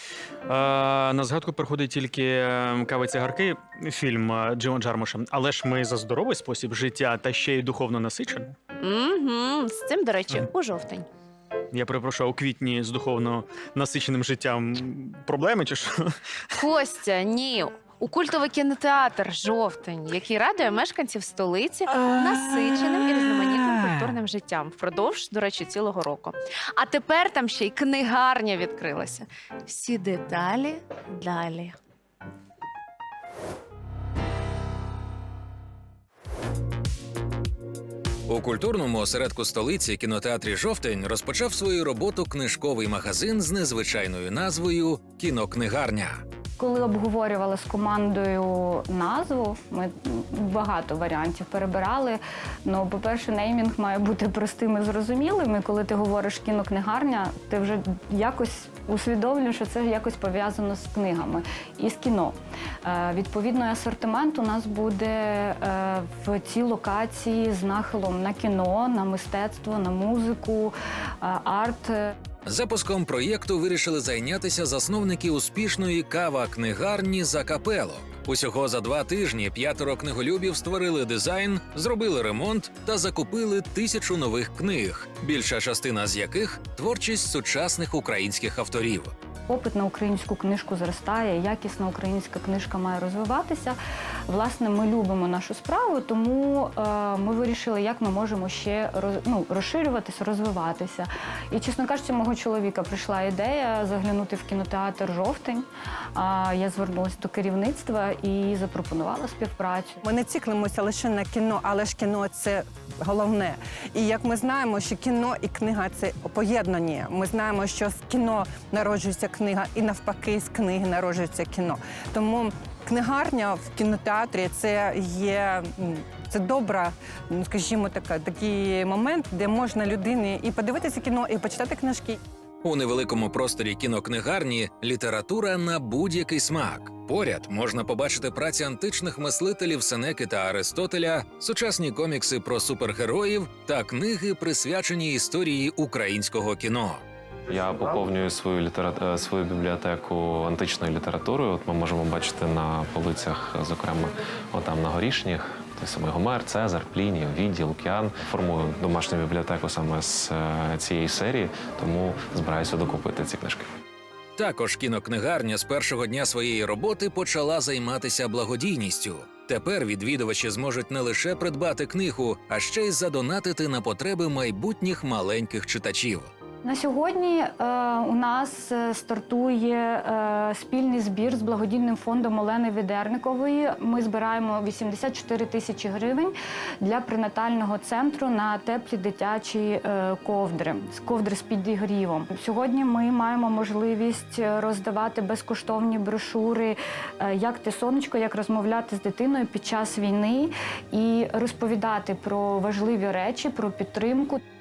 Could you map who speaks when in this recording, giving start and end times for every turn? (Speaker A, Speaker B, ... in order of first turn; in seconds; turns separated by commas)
Speaker A: 0.5-8.6, Speaker B: 8.8-11.1, Speaker A: 11.7-16.1, Speaker B: 16.6-31.8, Speaker C: 38.3-46.2, Speaker D: 46.6-72.0, Speaker C: 72.5-89.1, Speaker D: 89.5-110.0, Speaker E: 110.0-132.2, Speaker C: 132.6-147.0, Speaker F: 147.5-163.7, Speaker C: 164.4-176.3, Speaker D: 176.6-204.4